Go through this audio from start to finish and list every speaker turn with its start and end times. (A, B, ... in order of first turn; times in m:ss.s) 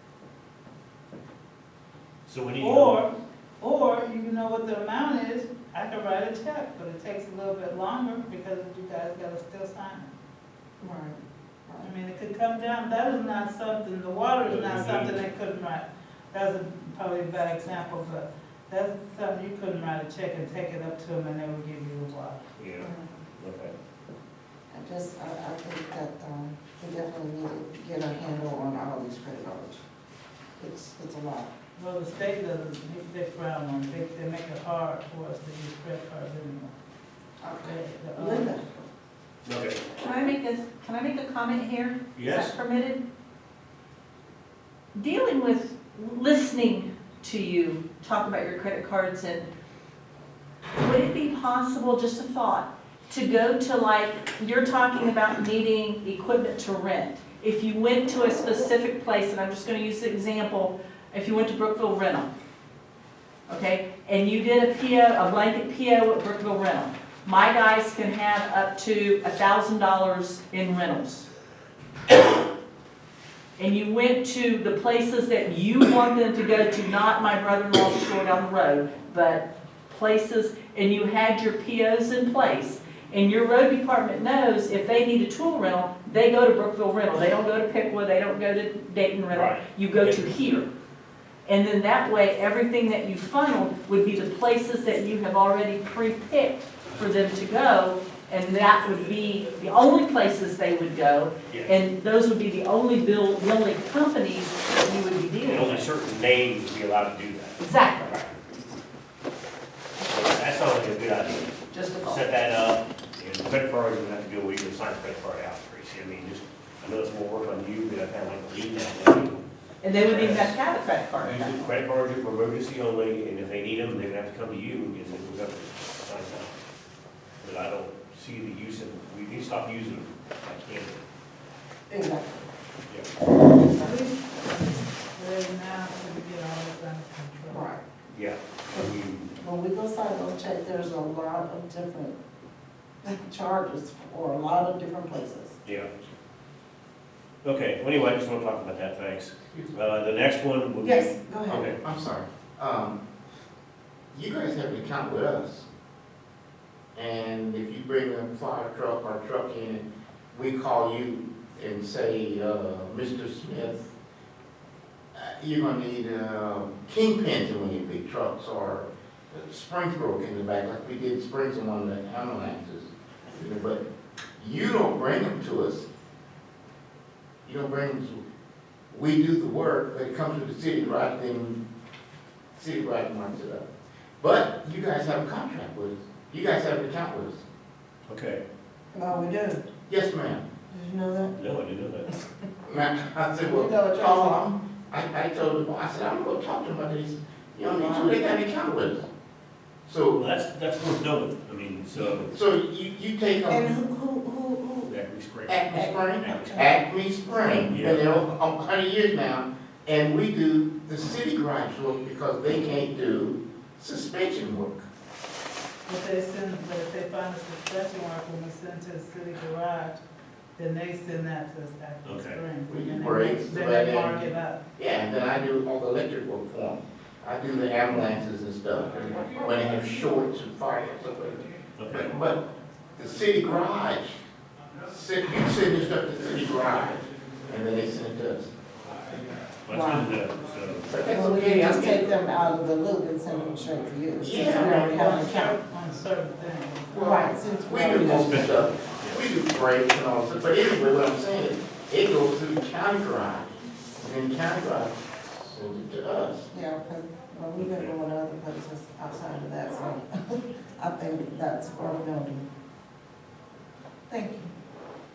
0:02.3-0:03.0 A
0:02.6-0:10.1 B
0:10.8-0:11.9 C
0:11.8-0:22.4 B
0:14.4-0:15.2 A
0:22.6-0:23.7 A
0:22.8-0:23.1 C
0:24.7-0:29.8 C
0:30.6-0:31.5 C
0:31.8-0:36.8 B
0:37.4-0:38.9 C
0:37.6-0:38.6 B
0:39.4-0:39.8 A
0:40.0-0:43.0 D
0:42.2-0:42.5 A
0:45.0-0:49.5 D
0:50.8-1:02.3 D
1:03.5-1:11.3 D
1:13.6-1:30.7 D
1:29.3-1:30.3 A
1:31.4-1:45.9 D
1:41.5-1:41.8 A
1:45.4-1:48.3 A
1:47.6-1:48.2 D
1:50.0-1:59.4 A
1:51.7-1:52.2 D
1:59.8-2:01.7 D
2:00.0-2:00.6 A
2:01.2-2:06.6 A
2:07.4-2:11.0 A
2:11.9-2:12.5 C
2:13.4-2:14.0 C
2:13.7-2:17.7 B
2:17.5-2:17.8 C
2:18.1-2:19.3 A
2:19.4-2:22.2 C
2:23.0-2:25.6 C
2:25.6-2:25.9 A
2:27.4-2:31.8 A
2:30.8-2:31.7 C
2:31.7-2:33.0 E
2:34.1-2:35.7 E
2:37.0-2:43.9 E
2:45.2-2:53.8 E
2:54.4-2:55.9 E
2:57.4-2:58.2 E
2:58.9-3:01.6 E
3:02.6-3:03.7 E
3:04.2-3:07.4 E
3:08.1-3:08.4 A
3:08.9-3:09.7 C
3:09.9-3:10.4 E
3:10.7-3:11.4 C
3:11.4-3:12.1 A
3:12.7-3:19.1 E
3:13.4-3:14.4 C
3:17.6-3:18.2 C
3:19.9-3:20.2 E
3:20.1-3:22.3 A
3:22.0-3:23.8 E
3:23.5-3:24.9 C
3:24.9-3:26.7 A
3:25.5-3:34.9 E
3:25.7-3:26.7 C
3:27.6-3:28.2 A
3:35.9-3:40.0 B
3:40.6-3:44.6 B
3:42.0-3:42.4 A
3:42.7-3:44.2 E
3:44.8-3:52.4 E
3:51.8-3:52.1 A
3:53.0-3:54.2 E
3:54.9-3:58.5 E
3:59.7-4:00.9 A
3:59.7-4:00.1 C
4:00.9-4:02.1 E
4:01.1-4:05.6 C
4:04.2-4:05.0 E
4:04.6-4:07.3 B
4:06.9-4:16.5 E
4:07.0-4:08.5 C
4:08.1-4:09.2 A
4:16.5-4:22.5 C
4:17.6-4:17.9 A
4:24.1-4:24.5 C